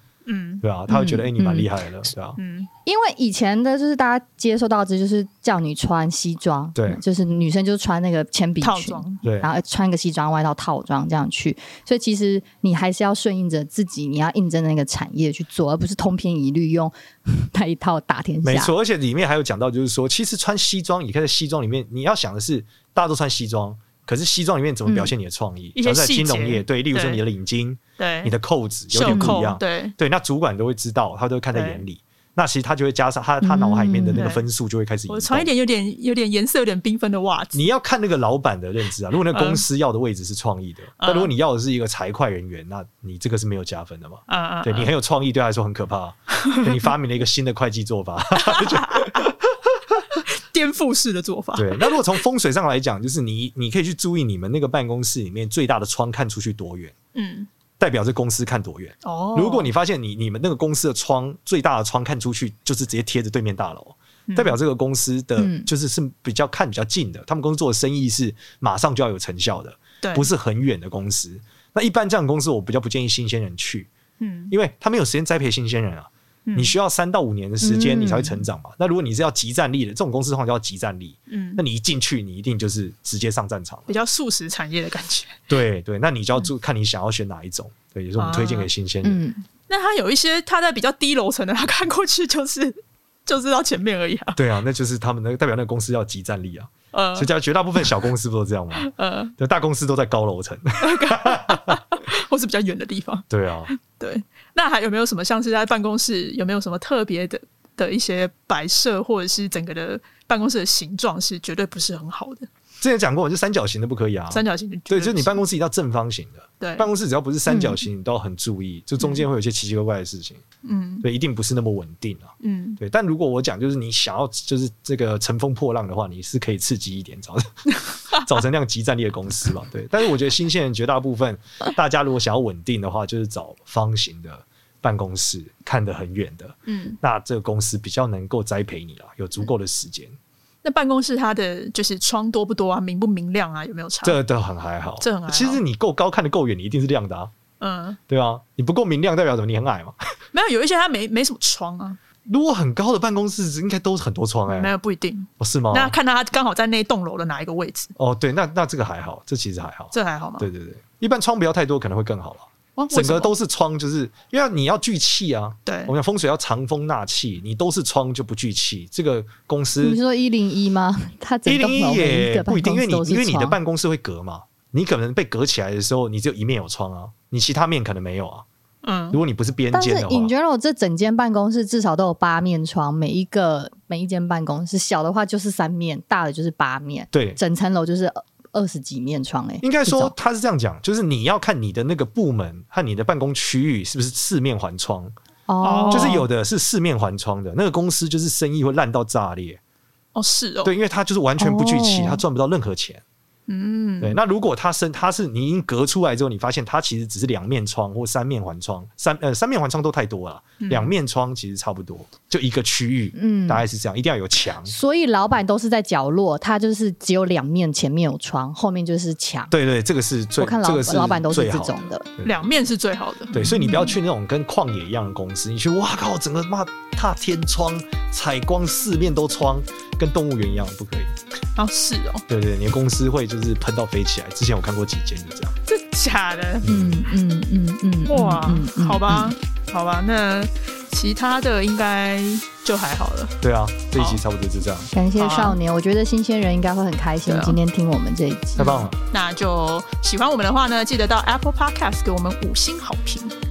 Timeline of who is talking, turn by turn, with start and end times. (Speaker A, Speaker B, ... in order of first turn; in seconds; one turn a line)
Speaker A: 0.2-0.6
Speaker B: 0.6-2.4
Speaker C: 0.9-1.7
Speaker A: 2.4-2.7
Speaker C: 2.9-18.7
Speaker B: 6.7-7.0
Speaker A: 8.6-9.2
Speaker B: 9.2-9.5
Speaker B: 18.4-35.5
Speaker C: 24.9-25.1
Speaker A: 25.7-27.2
Speaker A: 28.0-28.3
Speaker A: 28.9-29.9
Speaker C: 29.1-29.4
Speaker A: 31.5-31.8
Speaker C: 33.4-34.3
Speaker A: 34.1-34.4
Speaker A: 35.1-37.6
Speaker B: 37.5-50.0
Speaker A: 39.3-39.6
Speaker A: 41.0-41.3
Speaker A: 44.3-44.9
Speaker A: 48.3-49.3
Speaker A: 50.1-52.0
Speaker B: 51.5-56.9
Speaker A: 57.1-57.5
Speaker B: 57.8-73.9
Speaker A: 59.0-59.7
Speaker A: 64.3-64.6
Speaker C: 65.4-65.7
Speaker A: 70.0-70.3
Speaker A: 74.2-74.5
Speaker B: 74.5-84.0
Speaker A: 76.5-76.7
Speaker C: 77.6-78.4
Speaker A: 81.3-81.6
Speaker A: 83.9-85.4
Speaker B: 85.5-89.2
Speaker A: 88.2-88.7
Speaker C: 89.0-89.4
Speaker A: 89.7-94.4
Speaker B: 94.3-101.8
Speaker A: 96.9-97.3
Speaker A: 98.8-99.3
Speaker A: 100.8-112.5
Speaker B: 103.3-103.7
Speaker B: 112.8-120.4
Speaker A: 114.3-115.4
Speaker A: 116.6-116.9
Speaker C: 117.5-117.8
Speaker A: 119.0-119.2
Speaker A: 120.6-121.0
Speaker B: 121.0-140.2
Speaker A: 122.4-122.8
Speaker A: 127.8-128.2
Speaker A: 136.7-137.0
Speaker A: 140.6-144.2
Speaker B: 144.0-147.3
Speaker A: 145.0-145.6
Speaker A: 147.6-148.0
Speaker B: 148.1-150.1
Speaker A: 150.3-152.0
Speaker B: 152.3-154.7
Speaker A: 154.5-157.9
Speaker B: 155.4-155.9
Speaker B: 158.0-170.0
Speaker A: 159.9-160.5
Speaker A: 162.8-163.3
Speaker A: 165.6-165.9
Speaker C: 169.8-173.6
Speaker B: 171.4-178.4
Speaker A: 178.8-179.2
Speaker B: 179.1-180.3
Speaker C: 179.7-190.1
Speaker B: 187.1-187.4
Speaker B: 189.6-195.1
Speaker C: 195.5-196.3
Speaker A: 195.6-196.2
Speaker B: 195.9-199.6
Speaker A: 200.1-200.7
Speaker B: 200.6-203.0
Speaker C: 201.4-202.2
Speaker A: 203.5-204.2
Speaker B: 204.0-214.7
Speaker A: 210.6-210.9
Speaker C: 213.1-213.6
Speaker C: 214.7-219.5
Speaker B: 219.5-222.4
Speaker C: 220.4-222.1
Speaker A: 222.2-223.3
Speaker B: 223.3-231.1
Speaker C: 223.3-224.0
Speaker A: 231.6-232.2
Speaker B: 232.3-235.5
Speaker A: 235.7-236.7
Speaker B: 236.6-237.0
Speaker C: 236.6-239.3
Speaker A: 238.0-243.3
Speaker B: 243.4-244.9
Speaker C: 244.9-248.9
Speaker A: 245.2-245.6
Speaker A: 247.2-247.6
Speaker B: 248.6-248.9
Speaker A: 249.0-253.3